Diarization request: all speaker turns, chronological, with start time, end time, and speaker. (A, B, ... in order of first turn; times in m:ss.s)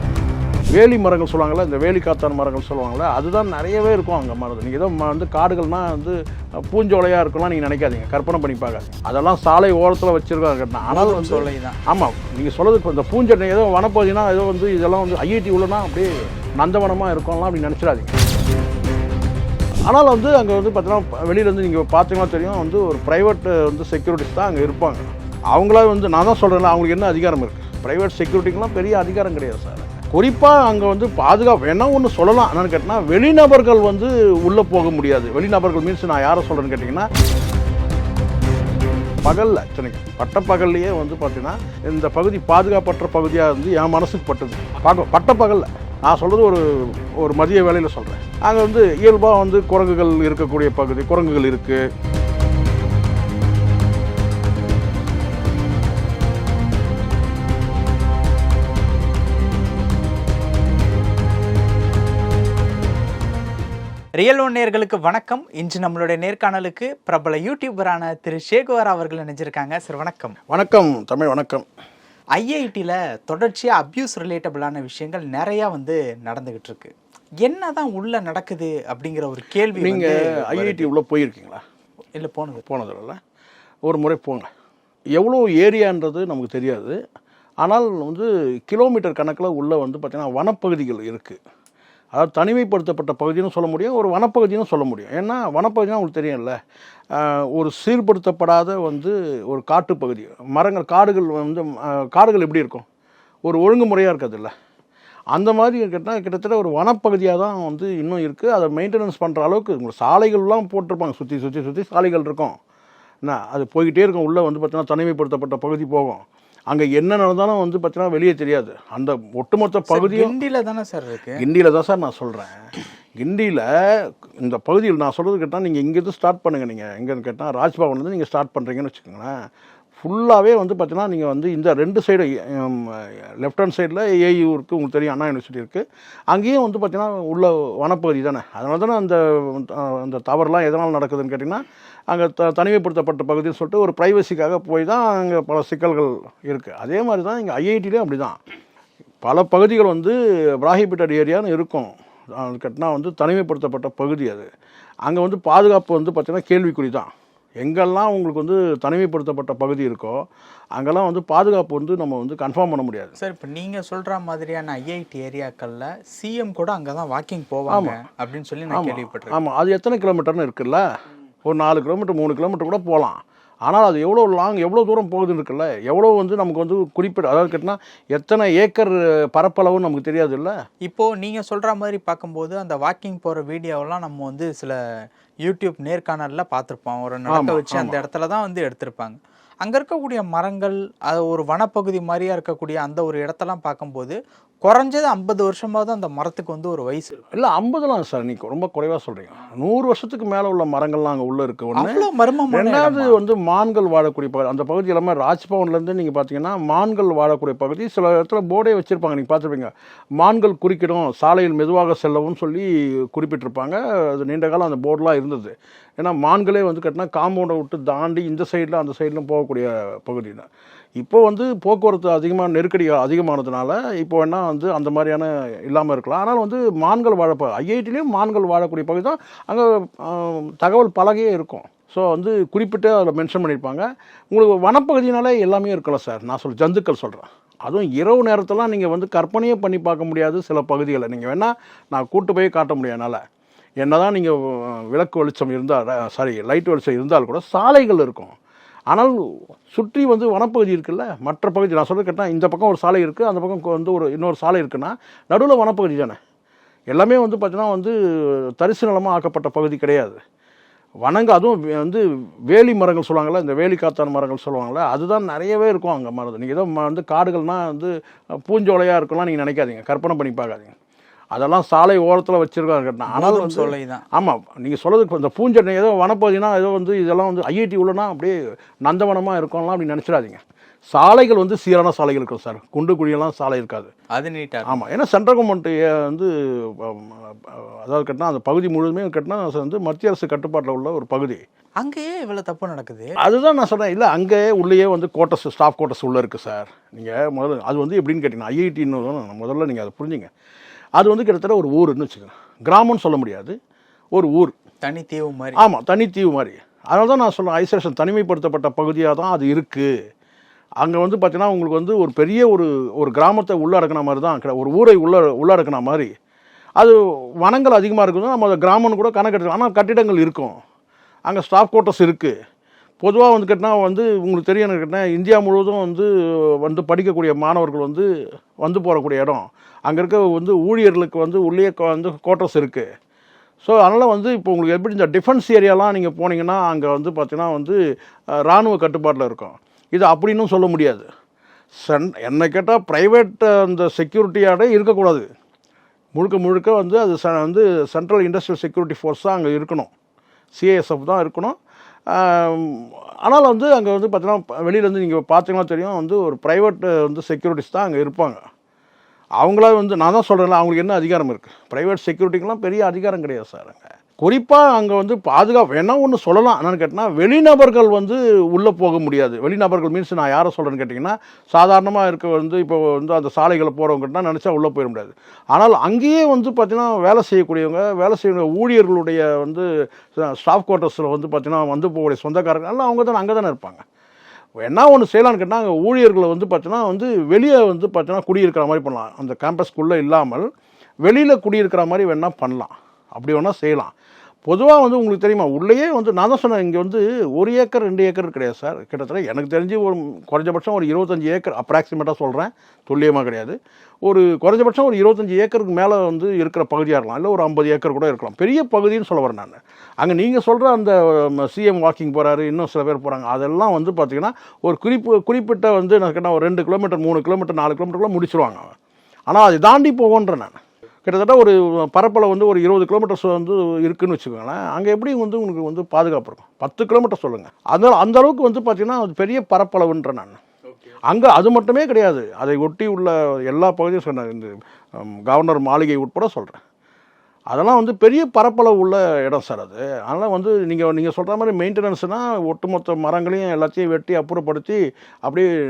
0:00.7-0:18.2 A
0:10.9-0:11.8 B
0:19.9-0:37.1 A
0:39.2-0:51.8 A
1:04.2-1:10.4 B
1:10.5-1:11.7 A
1:12.4-1:20.9 B
1:19.8-1:21.6 A
1:22.2-1:22.6 B
1:22.6-1:23.2 A
1:23.9-1:24.5 A
1:25.2-1:27.0 A
1:27.6-1:31.4 A
1:32.1-1:36.6 A
1:37.1-1:42.8 A
1:43.5-1:44.5 A
1:45.3-1:52.6 A
1:53.2-2:00.4 A
1:59.9-2:01.4 B
2:01.4-2:02.6 A
2:03.2-2:09.4 A
2:10.0-2:28.4 A
2:29.2-2:34.5 A
2:35.1-2:37.1 A
2:37.6-2:40.2 A
2:40.8-2:43.2 A
2:43.2-2:49.4 B
2:47.7-2:48.0 A
2:48.7-2:50.8 A
2:51.5-3:00.5 A
3:00.9-3:04.8 B
3:05.4-3:17.2 B
3:07.3-3:08.0 A
3:17.3-3:22.0 A
3:21.8-3:23.2 B
3:22.5-3:40.5 A
3:41.0-4:03.2 A
4:03.8-4:08.4 A
4:08.9-4:09.2 A
4:09.7-4:16.2 A
4:16.9-4:20.2 A
4:21.0-4:27.9 A
4:28.4-4:30.7 A
4:31.3-4:38.4 A
4:33.1-4:34.0 B
4:38.9-4:40.4 A
4:40.9-4:43.9 A
4:44.1-4:44.8 B
4:44.7-4:51.4 A
4:51.8-4:53.2 B
4:53.2-5:00.3 A
5:01.0-5:03.6 A
5:04.1-5:04.6 A
5:04.8-5:05.6 B
5:05.6-5:09.9 A
5:10.8-5:16.1 A
5:16.8-5:20.6 A
5:21.3-5:22.3 A
5:23.0-5:26.1 A
5:26.6-5:28.1 A
5:28.6-5:32.9 A
5:33.6-5:37.8 A
5:38.4-5:41.1 A
5:41.8-5:45.3 A
5:46.2-5:49.9 A
5:50.6-5:51.6 A
5:52.1-5:58.4 A
5:59.4-6:23.8 A
6:24.6-6:30.5 A
6:31.0-6:33.9 A
6:34.5-6:58.7 A
6:59.3-7:10.4 A
7:11.1-7:16.6 A
7:17.5-7:25.5 A